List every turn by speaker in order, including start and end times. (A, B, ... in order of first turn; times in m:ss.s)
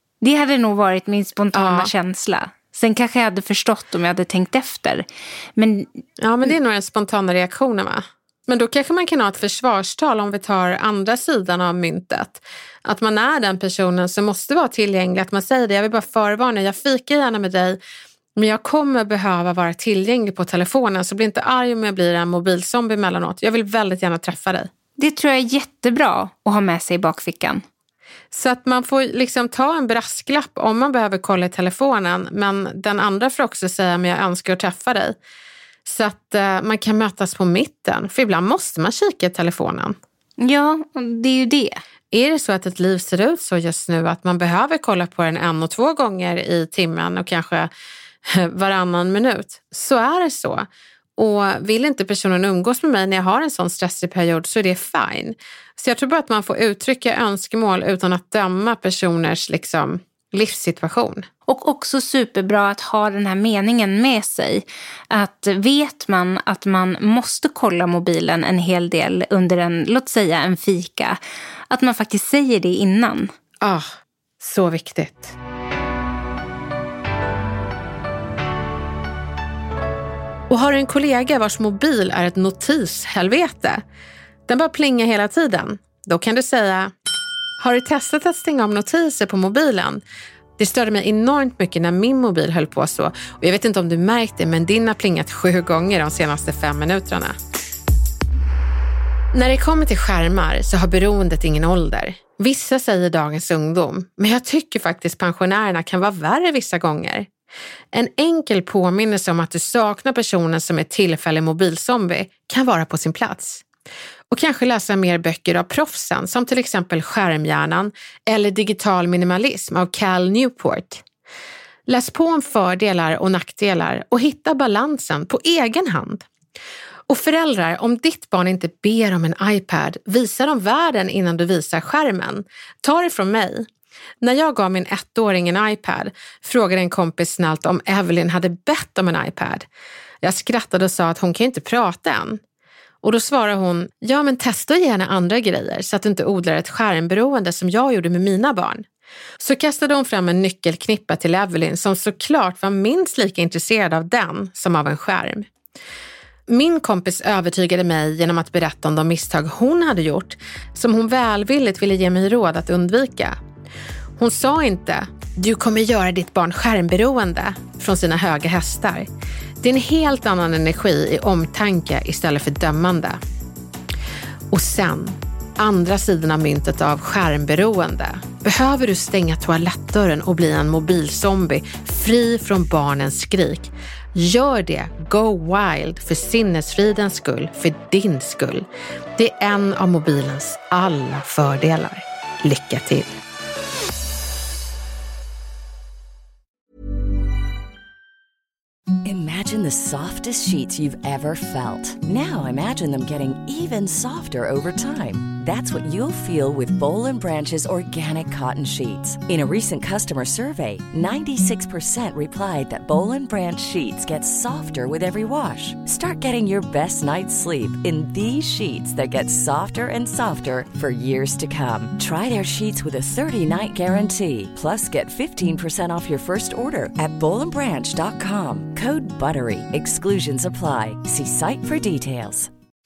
0:00.2-0:05.0 A
0:01.5-0:01.9 B
0:05.6-0:05.9 A
0:06.2-0:17.8 B
0:18.4-0:24.7 B
0:25.0-0:27.6 A
0:28.3-0:35.2 B
0:35.8-0:40.0 B
0:40.4-0:41.8 A
0:42.1-0:47.7 B
0:48.3-1:01.3 B
1:01.5-1:11.2 A
1:11.7-1:13.3 A
1:13.6-1:13.9 B
1:14.4-1:15.4 B
1:20.5-1:23.8 B
1:24.5-1:26.9 B
1:27.6-1:30.0 B
1:30.6-1:37.4 B
1:39.3-1:47.3 B
1:47.9-1:53.6 B
1:54.3-2:01.0 B
2:01.9-2:06.3 B
2:07.1-2:13.7 B
2:14.2-2:19.7 B
2:20.2-2:22.4 B
2:23.0-2:28.8 B
2:29.4-2:35.5 B
2:36.5-2:43.4 B
2:44.2-2:49.1 B
2:49.6-2:53.2 B
2:54.5-3:13.2 B
3:19.0-3:52.5 C